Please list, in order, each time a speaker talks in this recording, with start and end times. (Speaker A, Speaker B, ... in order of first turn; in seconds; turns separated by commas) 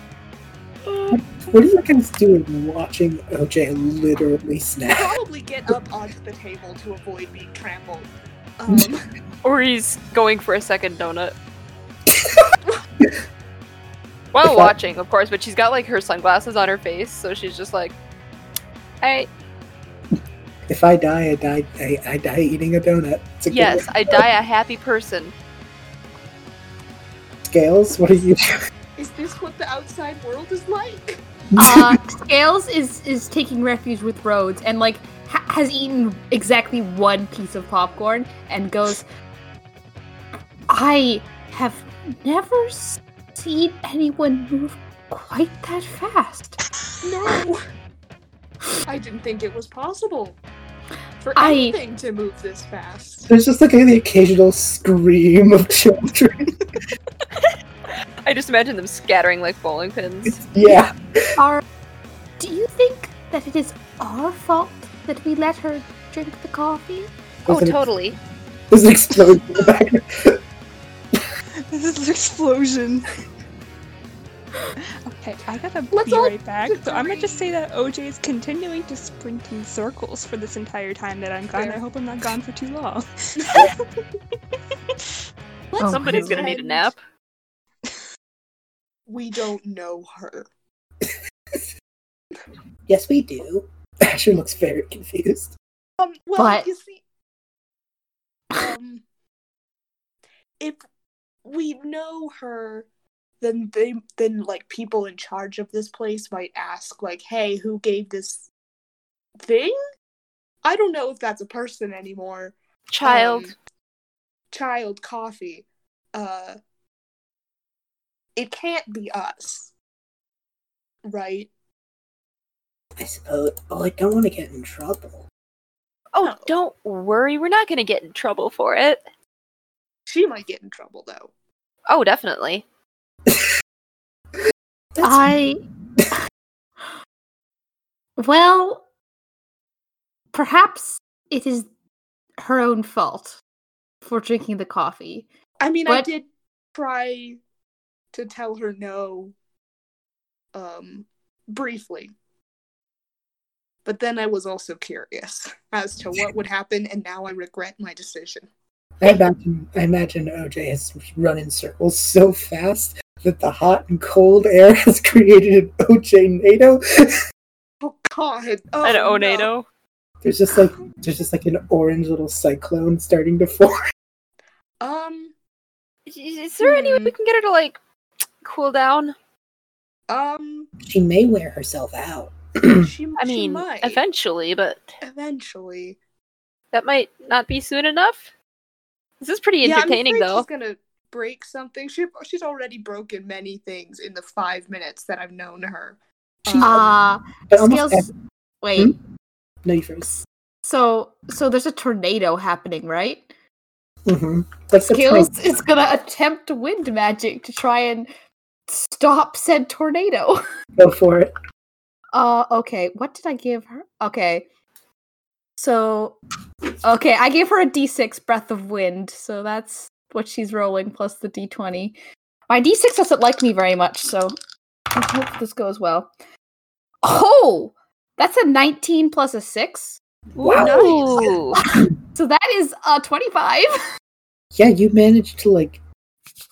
Speaker A: 1.1-5.2, Speaker B: 4.9-9.0, Speaker C: 9.4-11.3, Speaker A: 12.1-12.5, Speaker C: 14.3-18.0, Speaker A: 14.4-14.7, Speaker C: 19.0-19.3, Speaker A: 20.7-24.2, Speaker C: 23.5-25.3, Speaker A: 27.4-28.6, Speaker B: 29.0-31.2, Speaker A: 31.5-32.0, Speaker D: 31.6-39.0, Speaker D: 40.7-46.6, Speaker B: 47.0-47.6, Speaker B: 48.9-50.4, Speaker B: 51.2-53.3, Speaker D: 51.4-51.8, Speaker A: 53.3-56.5, Speaker C: 58.2-60.4, Speaker A: 60.3-61.3, Speaker D: 61.4-61.6, Speaker D: 62.4-67.1, Speaker A: 67.5-67.9, Speaker C: 67.5-68.2, Speaker A: 68.7-70.4, Speaker E: 71.7-73.1, Speaker E: 75.1-83.8, Speaker B: 75.9-77.5, Speaker B: 81.5-81.8, Speaker B: 83.4-83.7, Speaker B: 85.7-86.9, Speaker D: 85.8-86.4, Speaker C: 85.8-87.0, Speaker B: 89.1-90.5, Speaker A: 91.0-91.7, Speaker A: 92.9-95.5, Speaker B: 96.0-97.0, Speaker D: 96.4-96.7, Speaker B: 98.5-99.0, Speaker B: 101.5-102.9, Speaker B: 103.4-108.5, Speaker B: 109.4-109.8, Speaker B: 110.6-113.5, Speaker C: 112.9-113.5, Speaker B: 114.5-116.6, Speaker B: 118.4-119.7, Speaker B: 121.0-121.5, Speaker A: 123.0-125.3, Speaker C: 126.1-129.0, Speaker B: 126.2-126.5, Speaker B: 130.1-131.3, Speaker C: 131.9-132.7, Speaker A: 134.9-135.4, Speaker D: 135.0-135.6, Speaker D: 138.2-138.8, Speaker D: 140.3-141.7, Speaker D: 142.4-143.4, Speaker D: 144.1-145.3, Speaker B: 145.6-147.4, Speaker B: 148.1-149.3, Speaker B: 150.5-152.1, Speaker B: 153.8-158.5, Speaker A: 159.0-167.2, Speaker B: 167.8-169.5, Speaker C: 168.8-169.7, Speaker A: 170.2-173.8, Speaker B: 174.8-175.3, Speaker C: 176.1-177.8, Speaker B: 176.6-177.2, Speaker C: 178.4-179.2, Speaker B: 180.1-180.7, Speaker A: 180.8-182.9, Speaker B: 182.8-184.0, Speaker C: 183.2-185.0, Speaker B: 185.0-186.0, Speaker C: 186.7-188.3, Speaker C: 189.2-190.5, Speaker B: 189.6-196.9, Speaker A: 196.5-196.9, Speaker D: 196.6-198.1, Speaker A: 197.5-198.1, Speaker D: 198.6-199.0, Speaker A: 199.6-200.2, Speaker D: 200.6-203.3, Speaker A: 204.1-205.3, Speaker D: 204.9-208.1, Speaker D: 208.7-210.4, Speaker A: 210.8-211.3, Speaker D: 212.1-214.5, Speaker D: 215.6-216.2, Speaker D: 216.8-222.0, Speaker D: 222.5-224.3, Speaker D: 224.9-226.1, Speaker D: 227.0-230.0, Speaker A: 230.3-231.8, Speaker C: 230.4-231.6, Speaker B: 230.5-231.3, Speaker D: 231.6-233.7, Speaker A: 234.6-235.8